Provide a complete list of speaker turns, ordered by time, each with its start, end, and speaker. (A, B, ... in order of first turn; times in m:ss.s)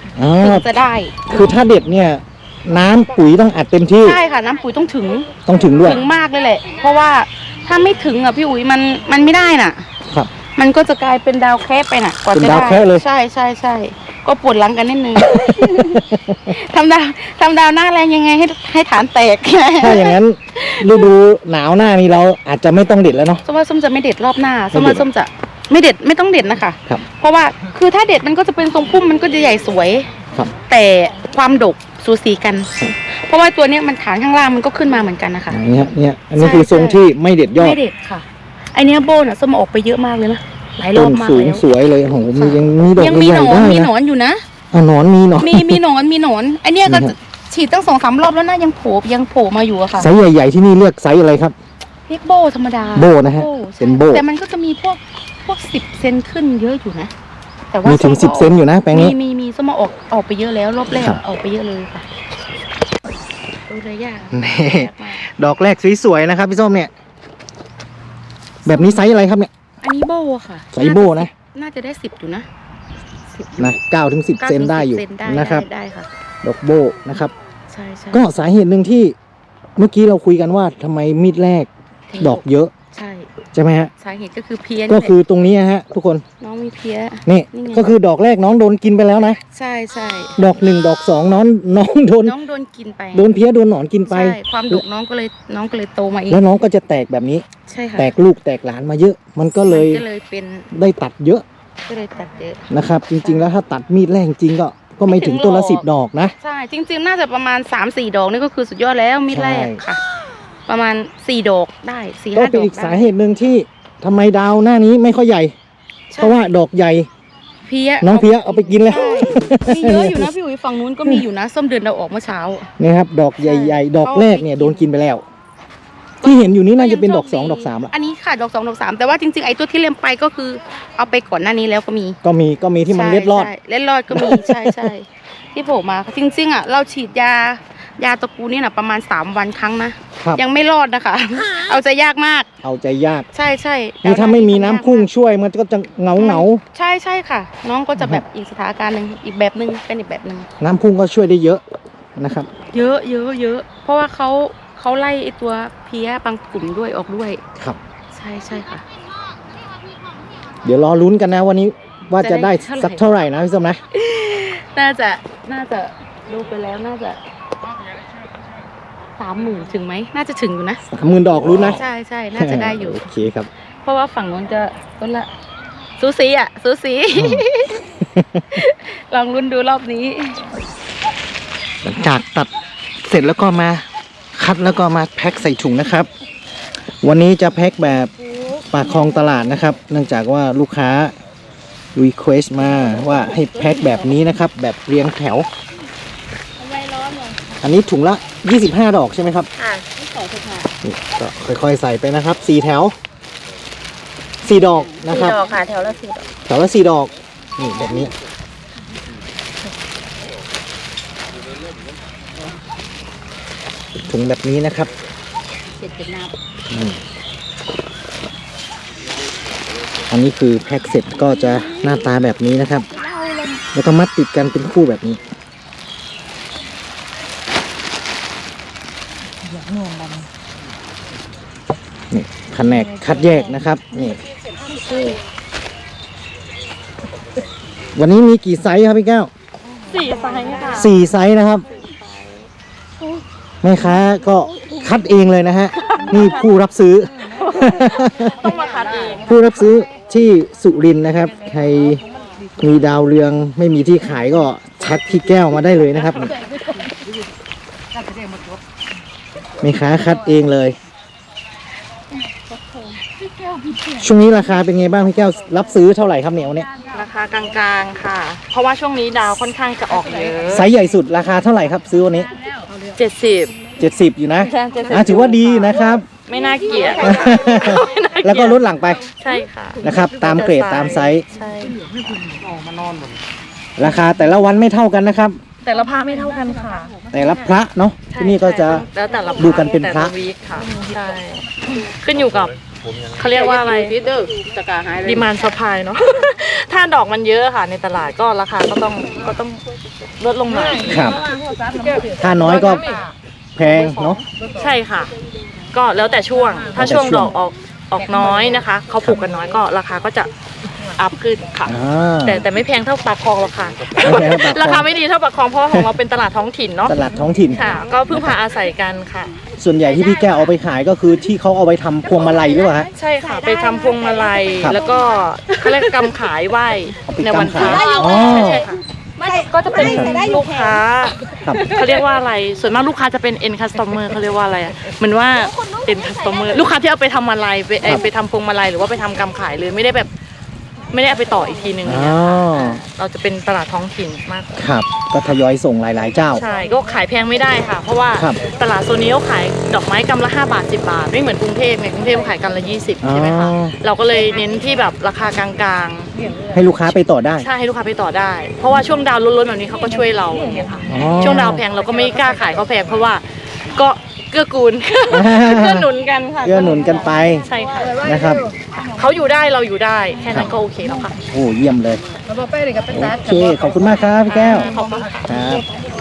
0:00.2-0:00.6 A
0:00.4-0:01.5 B
0:01.3-0:04.2 A
0:04.0-0:05.3 B
0:05.4-0:06.0 A
0:05.8-0:09.8 B
0:10.5-0:21.1 B
0:12.3-0:13.0 A
0:15.3-0:16.5 A
0:19.8-0:23.4 A
0:23.4-0:30.1 B
0:24.7-0:25.0 A
0:30.7-0:35.6 B
0:35.5-0:37.8 A
0:36.4-0:37.0 B
0:37.5-0:41.6 B
0:40.9-0:43.9 A
0:42.3-0:44.4 B
0:44.7-0:45.8 A
0:45.4-0:50.1 B
0:46.9-0:47.1 A
0:50.0-0:51.5 A
0:52.1-0:57.1 B
0:52.9-0:54.2 A
0:57.7-1:02.0 B
0:57.8-0:59.1 A
1:00.9-1:01.2 A
1:03.7-1:05.2 B
1:04.3-1:06.9 A
1:08.6-1:09.1 B
1:08.6-1:09.5 A
1:09.8-1:12.5 B
1:10.7-1:11.3 A
1:13.3-1:13.8 B
1:13.6-1:15.6 A
1:14.4-1:16.1 B
1:16.4-1:17.3 A
1:17.7-1:18.2 B
1:18.1-1:19.1 A
1:19.8-1:21.7 A
1:22.1-1:23.3 B
1:22.2-1:22.7 A
1:23.5-1:23.9 A
1:24.0-1:25.2 B
1:24.9-1:26.2 A
1:26.4-1:27.9 B
1:27.2-1:29.4 A
1:29.5-1:30.4 B
1:30.4-1:32.4 A
1:32.2-1:33.3 B
1:33.1-1:34.8 A
1:34.1-1:36.4 B
1:36.3-1:37.4 A
1:37.6-1:38.1 B
1:38.0-1:40.0 A
1:39.7-1:40.7 B
1:40.7-1:41.4 A
1:41.8-1:42.7 B
1:42.7-1:46.3 A
1:43.2-1:43.5 B
1:45.0-1:45.9 B
1:46.4-1:50.0 B
1:49.3-1:49.8 A
1:50.7-1:53.1 B
1:52.3-1:55.5 A
1:56.1-1:56.4 B
1:56.2-1:57.1 A
1:57.6-2:02.7 B
1:58.0-2:00.3 A
2:02.8-2:05.2 A
2:03.4-2:04.9 B
2:06.2-2:12.2 B
2:06.2-2:07.9 A
2:12.2-2:13.5 A
2:12.9-2:22.5 B
2:14.1-2:14.8 A
2:22.6-2:23.3 A
2:23.3-2:25.1 B
2:24.0-2:26.6 A
2:26.2-2:30.5 B
2:28.0-2:28.2 A
2:30.6-2:31.6 A
2:32.2-2:32.5 A
2:32.7-2:37.4 B
2:38.1-2:38.8 B
2:40.6-2:43.8 A
2:42.2-2:43.1 B
2:43.9-2:47.2 B
2:49.2-2:50.8 B
2:50.9-2:51.8 A
2:51.5-2:53.1 B
2:52.4-2:53.5 A
2:53.8-2:55.3 B
2:56.0-2:57.8 B
2:57.1-2:57.4 A
2:58.0-2:58.4 A
2:58.5-3:00.4 B
3:01.8-3:02.5 A
3:03.0-3:03.8 A
3:04.4-3:06.1 A
3:07.0-3:08.1 A
3:08.7-3:11.1 A
3:12.0-3:15.5 A
3:12.8-3:13.9 B
3:16.6-3:17.3 B
3:17.6-3:19.5 A
3:19.6-3:20.7 B
3:20.8-3:22.9 A
3:24.4-3:25.4 A
3:24.7-3:26.2 B
3:26.5-3:28.1 A
3:34.0-3:34.9 A
3:35.8-3:36.3 B
3:36.7-3:37.0 A
3:40.1-3:42.8 A
3:43.7-3:45.2 A
3:52.1-3:54.2 A
3:54.7-3:55.2 B
3:57.9-3:59.3 A
3:59.9-4:00.9 C
4:00.7-4:01.6 A
4:03.6-4:08.4 A
4:05.8-4:06.4 C
4:07.4-4:09.3 C
4:09.2-4:12.0 A
4:12.6-4:16.3 A
4:19.6-4:20.8 A
4:23.9-4:26.7 A
4:26.9-4:30.7 C
4:30.5-4:32.3 A
4:32.9-4:33.6 C
4:33.8-4:36.0 A
4:34.4-4:35.2 C
4:36.3-4:38.6 C
4:37.0-4:39.0 A
4:39.1-4:41.8 C
4:39.8-4:41.2 A
4:41.4-4:41.6 B
4:43.8-4:45.4 A
4:45.6-4:46.9 C
4:47.1-4:48.8 A
4:48.1-4:52.5 C
4:49.4-4:50.1 A
4:53.1-4:54.0 C
4:53.3-4:55.1 B
4:55.0-4:59.6 C
5:00.2-5:01.1 C
5:00.9-5:01.2 A
5:02.2-5:02.9 A
5:03.6-5:04.2 A
5:03.6-5:04.2 B
5:04.5-5:05.1 C
5:05.7-5:10.3 C
5:06.7-5:07.4 A
5:10.8-5:17.0 C
5:11.6-5:12.4 A
5:14.0-5:14.9 A
5:16.8-5:17.6 A
5:17.5-5:19.3 C
5:19.6-5:22.9 A
5:22.9-5:40.1 C
5:27.0-5:28.6 A
5:29.8-5:30.2 A
5:31.4-5:31.6 A
5:40.9-5:44.6 C
5:41.8-5:42.8 A
5:44.6-5:46.4 A
5:46.3-5:56.1 C
5:53.0-5:53.7 A
5:56.5-5:57.4 A
5:57.4-6:08.0 C
6:00.9-6:01.6 A
6:05.1-6:05.9 A
6:06.4-6:07.5 A
6:08.0-6:08.4 A
6:08.9-6:11.2 C
6:11.3-6:12.0 A
6:12.9-6:14.7 A
6:14.2-6:15.2 C
6:15.2-6:15.6 A